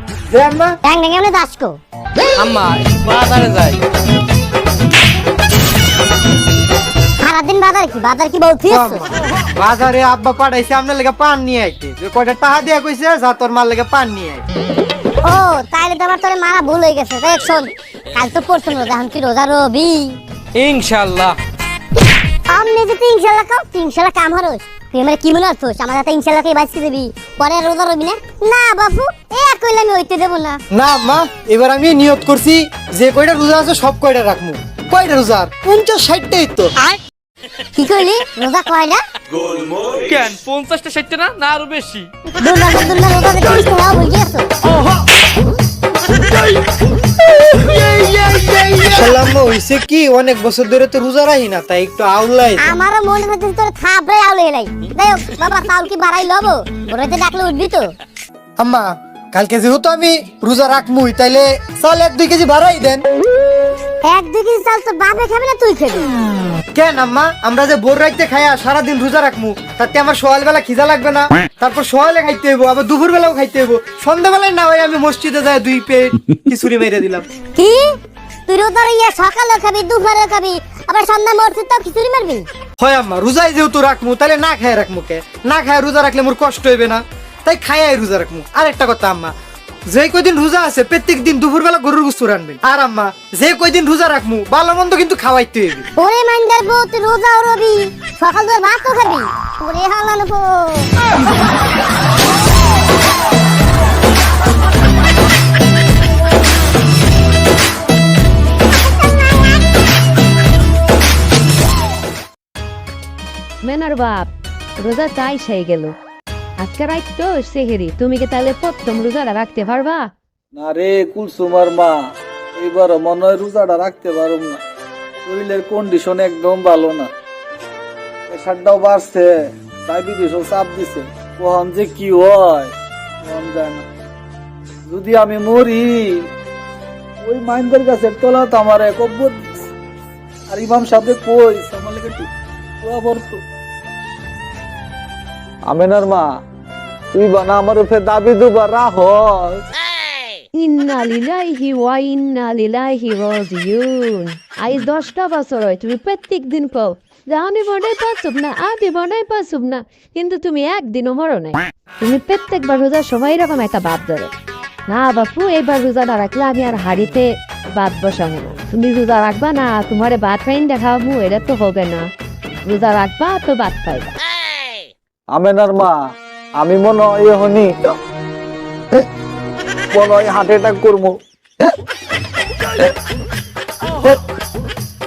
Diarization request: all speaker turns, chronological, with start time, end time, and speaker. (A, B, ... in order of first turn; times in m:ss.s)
0:00.3-0:00.7 A
0:00.8-0:01.7 B
0:02.4-0:03.8 C
0:07.2-0:09.0 B
0:08.7-0:14.4 A
0:15.2-0:20.2 B
0:20.6-0:21.4 C
0:22.5-0:30.6 B
0:30.7-0:36.7 A
0:37.8-0:39.0 B
0:39.8-0:42.1 C
0:42.4-0:44.5 B
0:47.5-0:52.7 A
0:52.6-0:57.9 B
0:58.6-1:03.0 A
1:04.0-1:06.0 B
1:06.7-1:17.2 A
1:17.6-1:17.9 B
1:18.5-1:22.5 B
1:22.8-1:29.3 A
1:29.9-1:35.9 A
1:36.0-1:40.9 B
1:53.6-1:55.9 D
1:56.6-2:00.1 D
2:00.6-2:01.9 E
2:02.6-2:04.6 E
2:05.2-2:07.1 E
2:08.3-2:09.3 E
2:09.9-2:13.8 E
2:14.9-2:16.0 E
2:17.2-2:19.5 E
2:20.5-2:22.3 E
2:22.8-2:23.4 E
2:25.7-2:26.3 E
2:27.1-2:29.6 E
2:30.6-2:44.3 D
2:44.9-2:52.1 D
2:52.6-2:54.1 D
2:55.3-2:56.0 E
2:56.6-2:58.0 E
2:59.9-3:01.2 E